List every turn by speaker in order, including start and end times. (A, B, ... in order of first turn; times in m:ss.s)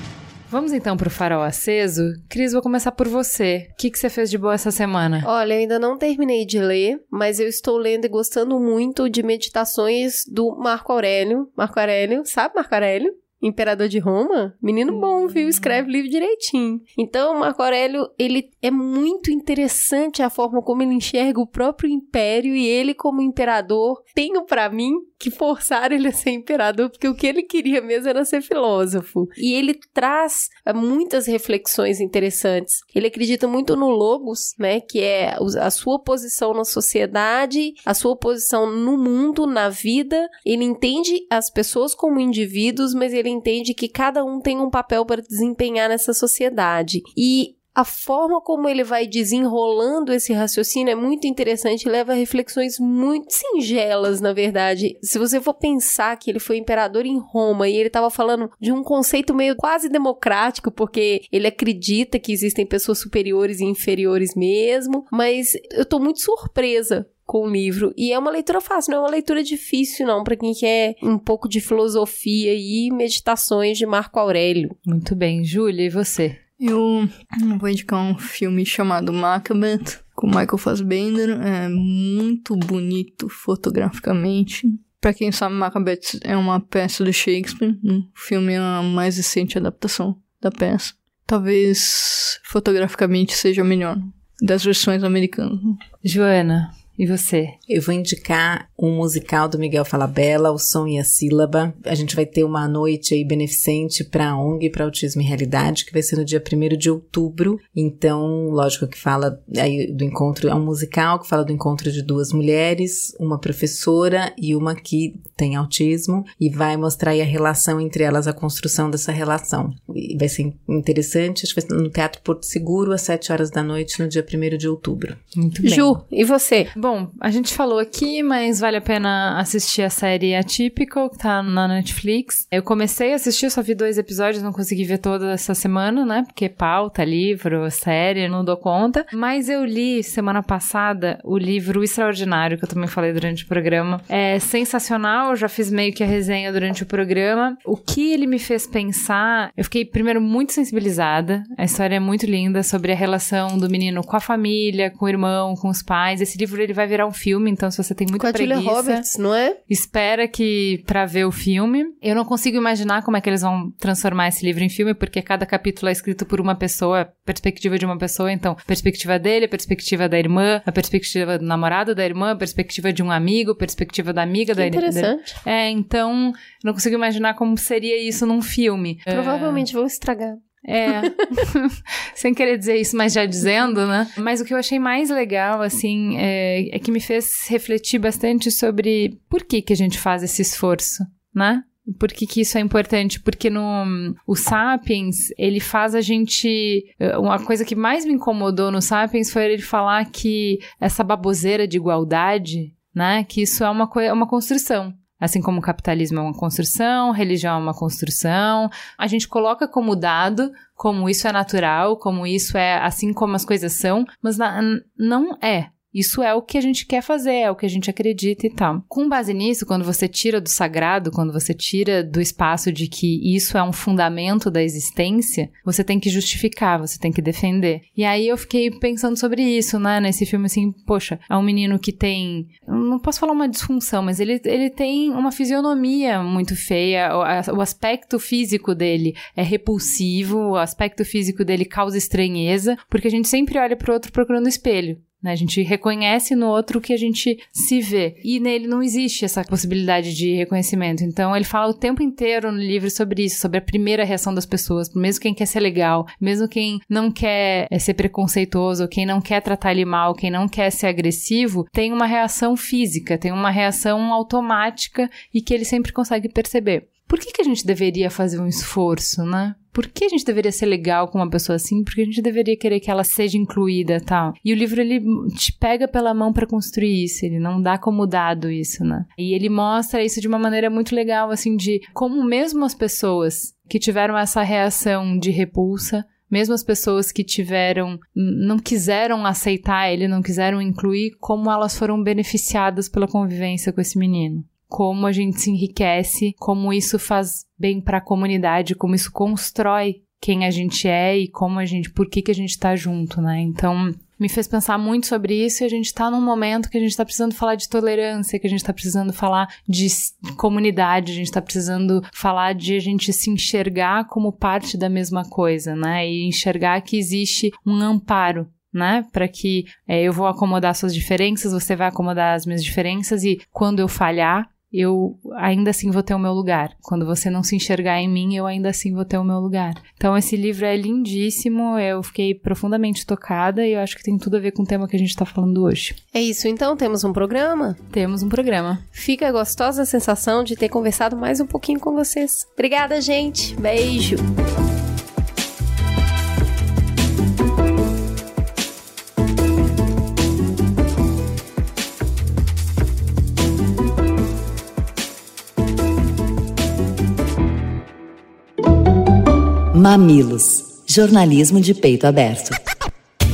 0:00.5-0:05.3 A
0:05.2-1:14.8 B
1:14.8-1:16.4 A
1:16.6-1:35.8 C
1:36.0-1:37.6 A
1:37.7-2:06.0 D
2:05.6-2:06.7 B
2:06.7-2:39.0 A
2:38.2-2:39.6 B
2:39.7-2:59.6 A
2:54.6-2:55.4 B
2:59.1-3:01.2 B
3:00.6-5:36.0 A
5:36.1-5:37.8 B
5:37.9-5:38.8 A
5:38.9-5:44.2 B
5:59.7-6:02.6 E